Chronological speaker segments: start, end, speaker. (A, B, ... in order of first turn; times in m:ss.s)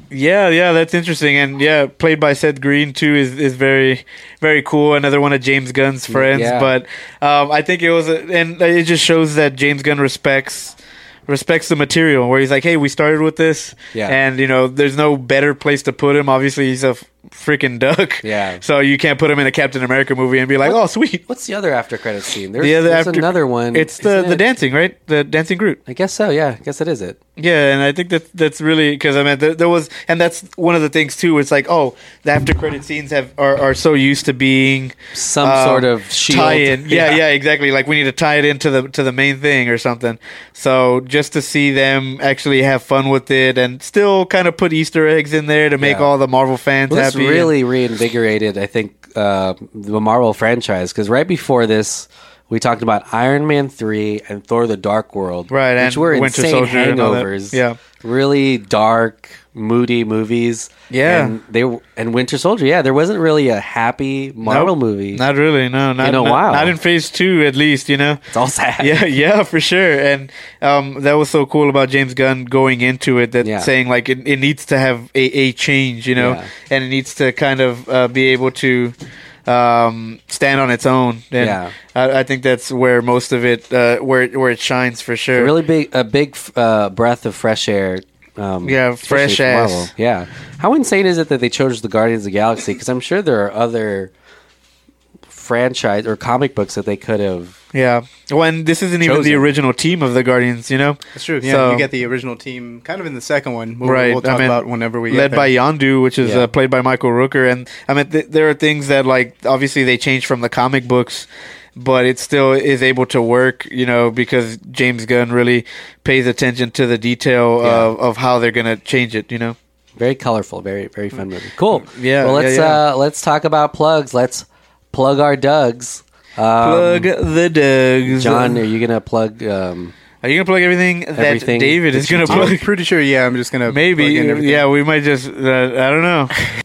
0:00.1-0:21.2 A
0:06.1-0:06.7 B
0:18.2-0:18.6 B
0:21.3-0:24.4 B
0:22.6-0:25.8 A
0:25.9-0:27.2 B
0:27.4-0:47.5 A
0:35.1-0:37.2 B
0:45.8-0:46.1 B
0:46.9-1:05.2 B
0:55.5-0:57.8 A
1:00.9-1:01.3 A
1:04.4-1:08.2 A
1:06.0-1:06.7 B
1:08.3-1:09.0 B
1:08.8-1:19.0 A
1:13.4-1:13.7 B
1:16.2-1:16.5 B
1:19.5-1:25.5 A
1:21.4-1:21.8 B
1:25.4-1:34.1 B
1:28.6-1:29.9 A
1:35.3-1:37.6 B
1:37.7-1:41.9 A
1:39.0-1:39.5 B
1:41.2-1:45.5 C
1:43.8-1:59.6 A
1:46.2-1:46.5 B
1:57.6-1:57.9 B
2:00.0-2:07.1 B
2:01.9-2:02.8 A
2:06.6-2:08.6 A
2:08.1-2:09.9 B
2:10.2-2:12.6 A
2:11.2-2:12.6 B
2:12.3-2:14.6 C
2:13.7-2:16.3 A